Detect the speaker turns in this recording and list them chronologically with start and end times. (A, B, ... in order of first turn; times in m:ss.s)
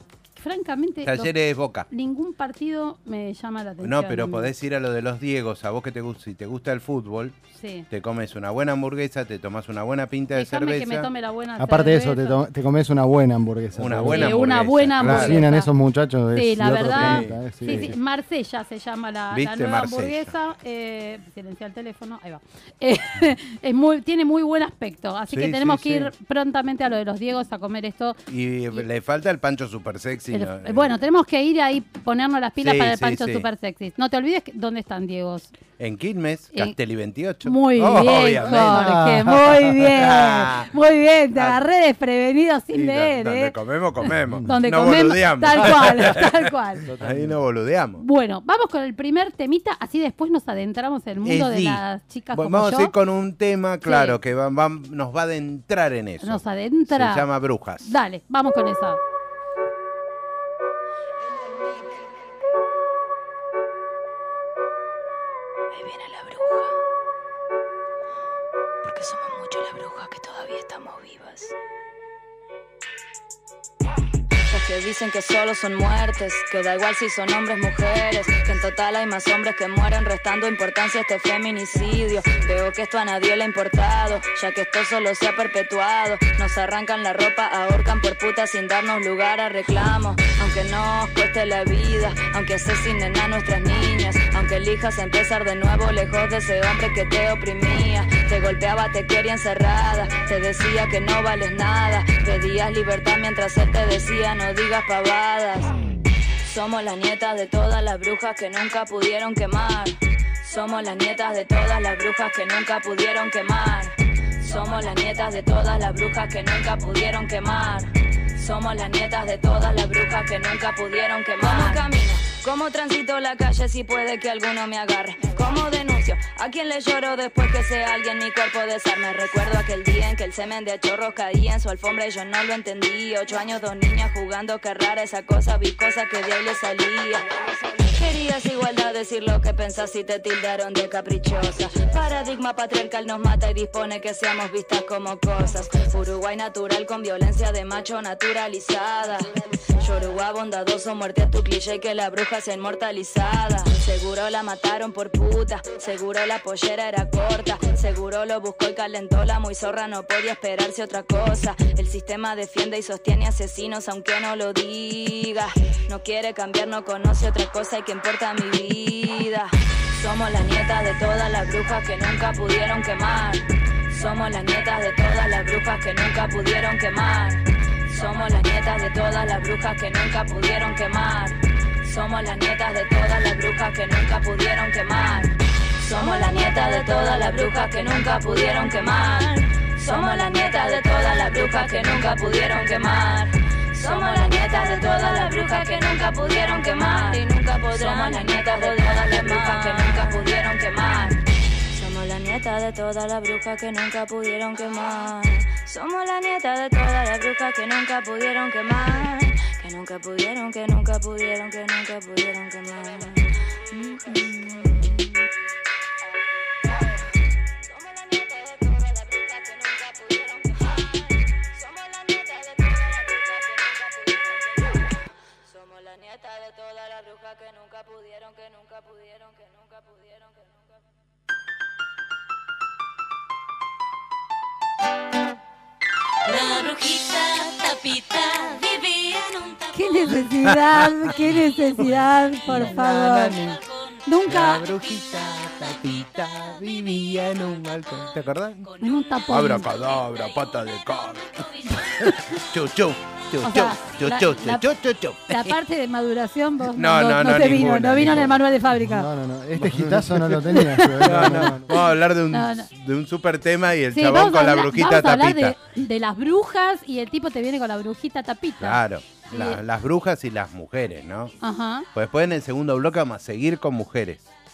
0:00.4-0:01.3 A
0:01.0-0:01.9 B
0:01.9-0:04.5 A
0:03.8-0:07.4 B
0:07.5-0:07.9 A
0:07.9-0:11.1 B
0:10.3-0:12.4 A
0:11.6-0:17.9 C
0:13.8-0:15.4 B
0:14.1-0:15.7 A
0:16.3-0:28.2 A
0:16.9-0:17.9 B
0:19.3-0:20.3 B
0:25.3-0:26.1 B
0:28.3-0:30.9 B
0:30.3-0:35.5 A
0:32.6-0:33.4 B
0:35.8-0:38.9 B
0:37.4-0:43.5 A
0:38.4-0:39.7 C
0:39.9-0:40.7 B
0:41.4-0:41.6 B
0:42.7-0:46.2 B
0:44.0-0:46.8 A
0:46.9-0:47.4 C
0:47.0-0:48.0 B
0:48.0-0:52.9 A
0:51.2-0:57.9 B
0:53.8-0:54.2 A
0:56.2-0:57.3 A
0:57.8-0:59.0 A
1:05.7-1:06.7 D
1:08.8-1:11.5 D
1:14.4-1:45.7 D
1:46.4-3:35.1 D
3:37.6-3:50.4 D
3:56.2-4:00.2 E
3:59.7-4:03.4 A
4:00.4-4:01.1 B
4:01.2-4:01.8 E
4:02.4-4:04.1 E
4:02.5-4:03.6 B
4:04.0-4:04.6 A
4:04.3-4:08.6 B
4:05.6-4:06.0 E
4:08.6-4:10.6 E
4:08.8-4:09.7 A
4:09.3-4:11.3 B
4:11.3-4:12.1 E
4:12.0-4:15.6 B
4:13.4-4:14.6 A
4:15.3-4:19.1 A
4:16.7-4:18.4 B
4:18.8-4:21.7 C
4:19.6-4:25.6 B
4:20.5-4:22.7 A
4:23.9-4:29.6 A
4:28.6-4:31.3 B
4:31.4-4:31.9 A
4:31.9-4:34.2 B